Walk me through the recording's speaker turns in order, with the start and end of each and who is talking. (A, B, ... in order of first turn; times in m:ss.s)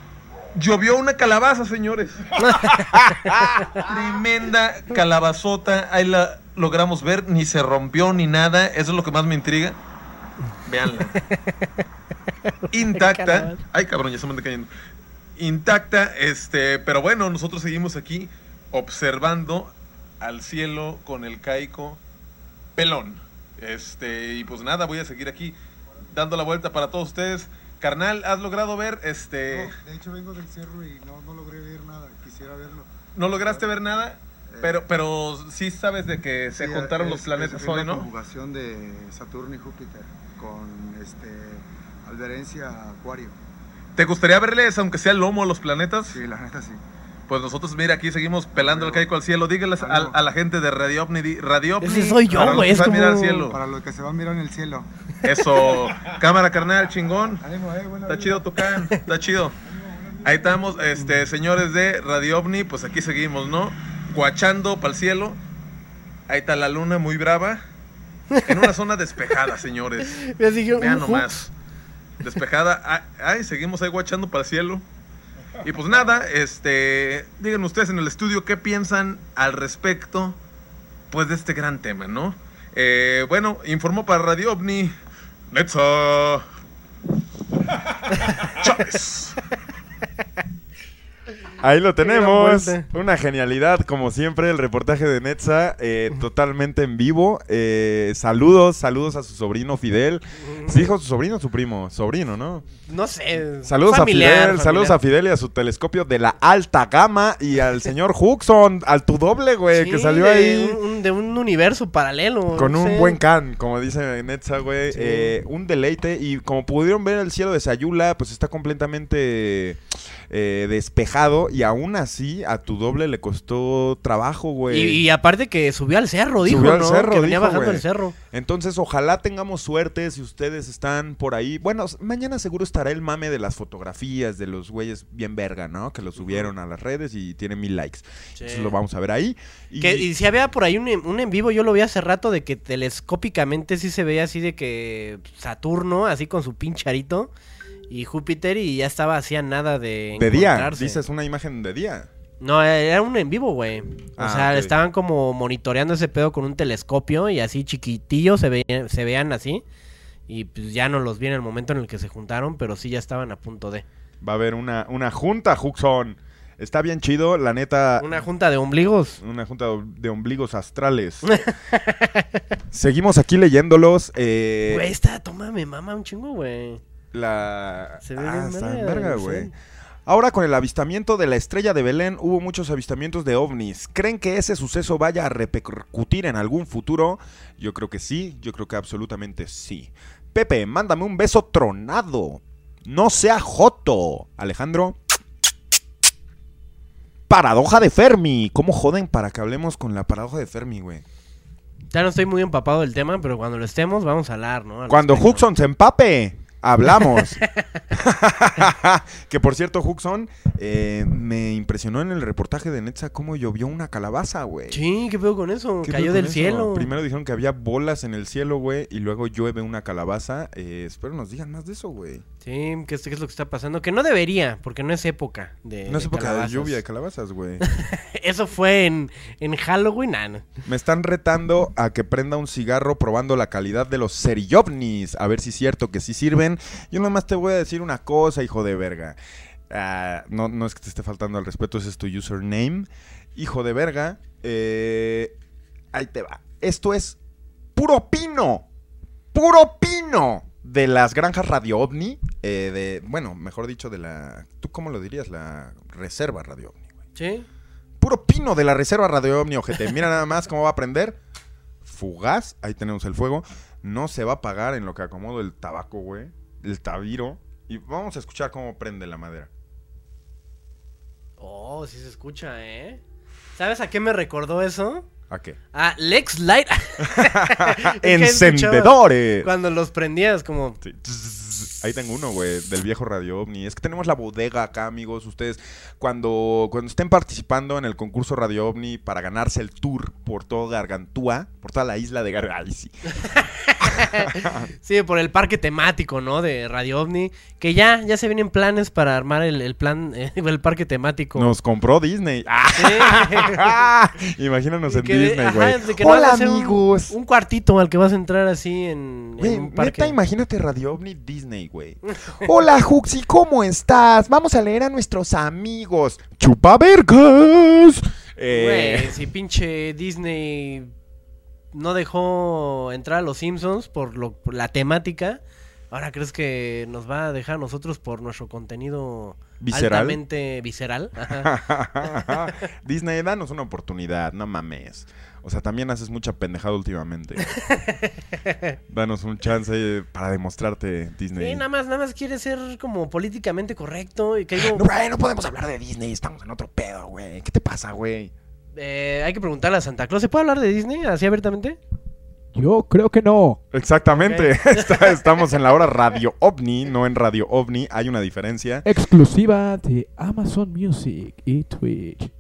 0:00.5-0:02.3 A
0:02.4-0:03.9 B
0:03.8-0:09.8 A
0:10.6-0:11.2 A
0:11.2-0:11.7 B
0:12.4-0:13.6 B
0:12.7-0:14.7 A
0:15.4-0:22.0 A
0:22.8-0:25.6 A
0:26.1-0:29.7 A
0:29.5-0:33.8 C
0:33.1-0:38.0 A
0:34.5-0:34.8 C
0:36.5-0:43.4 C
0:44.0-0:46.2 A
0:46.1-0:46.8 C
0:47.3-0:53.6 A
0:48.5-0:49.1 C
0:49.8-0:50.2 C
0:51.8-0:53.5 B
0:52.3-0:56.2 C
0:55.2-0:57.4 A
0:57.4-0:58.6 C
0:58.1-0:59.6 A
0:59.7-1:01.0 C
1:00.2-1:05.4 A
1:06.3-1:07.6 A
1:08.3-1:08.7 B
1:08.4-1:11.5 A
1:10.0-1:11.3 B
1:12.2-1:14.8 A
1:15.6-1:20.4 A
1:21.1-1:24.9 A
1:25.5-1:26.4 A
1:28.2-1:28.4 B
1:28.3-1:29.3 A
1:31.6-1:42.7 D
1:32.0-1:32.8 B
1:40.4-1:40.9 B
1:42.8-1:45.0 B
1:43.6-1:50.8 D
1:49.7-1:53.2 B
1:52.5-2:05.0 D
1:54.9-1:55.3 B
2:04.7-2:08.1 B
2:06.4-2:20.1 D
2:16.2-2:16.5 B
2:18.4-2:18.7 B
2:19.8-2:27.3 B
2:27.9-2:31.0 B
2:30.2-2:32.1 D
2:32.4-2:39.6 B
2:34.2-2:34.7 D
2:40.3-2:43.8 B
2:44.2-2:48.2 D
2:48.0-2:49.2 B
2:49.2-2:51.3 D
2:51.2-2:52.4 B
2:52.7-2:54.8 D
2:54.7-2:56.8 B
2:57.1-2:59.5 D
2:58.0-2:59.5 B
3:00.0-3:15.0 D
3:17.3-3:21.0 D
3:21.9-3:25.4 B
3:24.9-3:27.4 D
3:27.0-3:27.8 B
3:27.9-3:34.8 D
3:34.7-3:36.9 B
3:35.8-3:42.2 D
3:42.4-3:46.8 B
3:45.9-3:47.6 D
3:47.6-3:50.4 B
3:50.6-3:59.2 D
3:59.7-4:05.3 D
4:05.9-4:07.2 D
4:07.8-4:08.6 D
4:09.3-4:16.8 D
4:17.1-4:17.4 B
4:18.0-4:21.2 D
4:21.8-4:29.5 D
4:31.4-4:33.0 B
4:33.6-4:35.0 B
4:35.3-4:35.6 D
4:35.7-4:40.8 B
4:37.0-4:39.5 D
4:40.8-4:52.9 D
4:53.2-5:01.5 B
4:53.8-4:54.7 D
5:01.3-5:07.1 D
5:02.7-5:03.7 B
5:04.9-5:10.1 B
5:09.4-5:19.2 D
5:18.5-5:20.9 B
5:21.7-5:31.5 B
5:29.6-5:30.2 D
5:31.3-5:37.5 D
5:32.0-5:32.5 B
5:37.6-5:38.7 B
5:38.9-5:41.6 D
5:41.3-5:44.8 B
5:44.6-5:48.3 D
5:48.7-5:51.8 B
5:52.5-5:53.6 E
5:53.7-5:58.8 D
5:54.1-5:55.1 B
5:58.8-6:02.3 E